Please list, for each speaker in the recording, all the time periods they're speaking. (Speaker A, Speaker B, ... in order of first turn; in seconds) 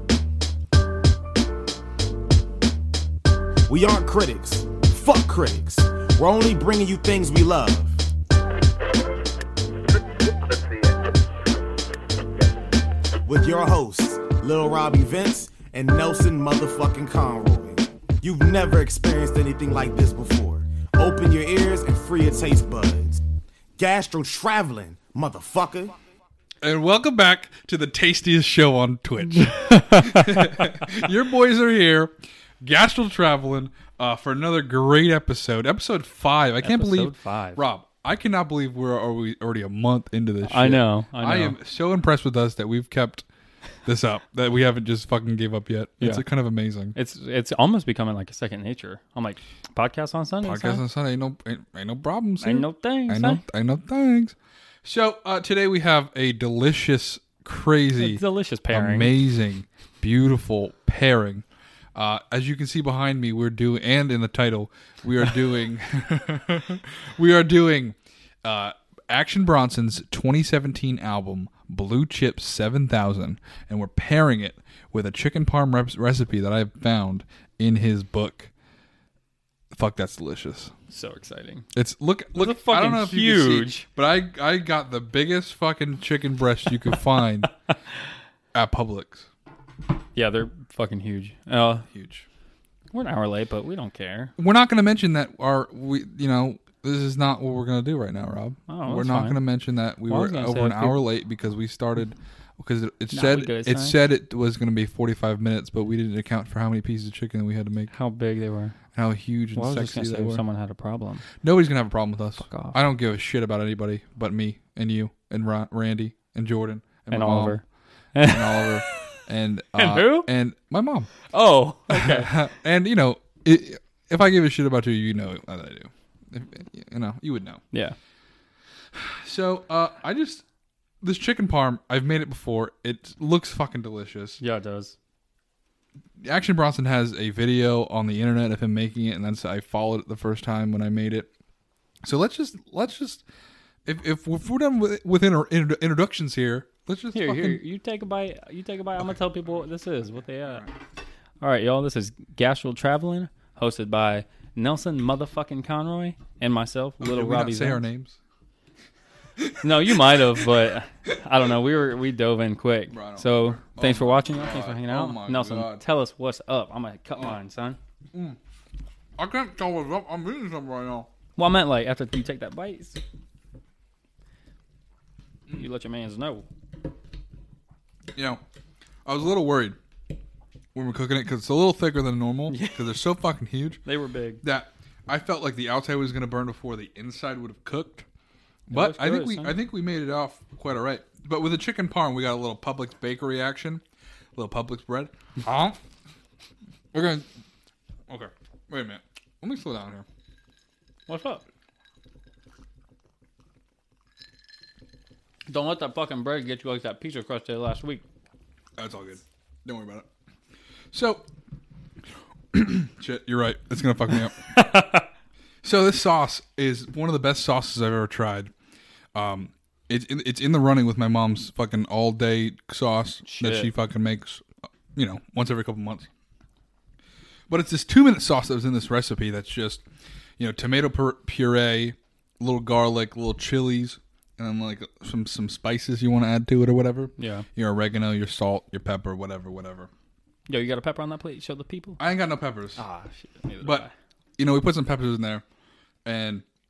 Speaker A: 3.7-8.1, 13.2-23.2, 23.8-25.9
Speaker B: 26.6-43.2, 43.9-47.0, 50.4-78.5, 79.7-80.7, 81.7-87.5, 88.5-89.3, 91.9-92.2, 94.4-107.9, 108.9-110.4, 111.4-117.6, 118.2-121.1, 121.9-127.6, 128.9-130.4, 131.0-134.4, 136.2-141.3, 142.0-143.2, 143.8-147.6, 157.0-158.2, 159.4-160.2, 162.9-165.8, 168.1-168.4, 169.2-171.1, 178.1-178.4, 179.0-179.8, 180.7-183.8, 184.4-188.1, 188.7-193.8, 194.3-195.8, 196.9-197.3, 198.1-200.1, 208.8-210.1, 210.9-211.3, 212.5-214.7, 215.6-218.5, 219.1-226.1, 227.5-229.8, 230.4-239.9, 242.0-242.8, 244.4-245.4, 246.0-246.4
Speaker C: 29.4-30.6, 36.6-37.6, 40.4-41.5, 47.0-50.8, 52.4-53.4, 58.0-59.1, 80.9-81.7, 82.3-83.8, 90.1-91.9, 92.9-94.3, 98.7-99.4, 100.1-101.0, 103.1-104.0, 107.9-108.8, 109.5-111.2, 112.4-112.8, 117.1-117.6, 118.1-119.0, 119.8-120.3, 121.3-122.3, 134.4-134.9, 147.1-150.7, 151.4-157.8, 159.6-167.8, 171.4-173.0, 175.5-176.4, 182.5-182.8, 183.8-184.4, 188.7-189.6, 201.1-201.4, 205.5-208.0, 214.4-215.1, 223.2-223.7, 237.2-237.5, 240.5-242.0, 242.8-243.9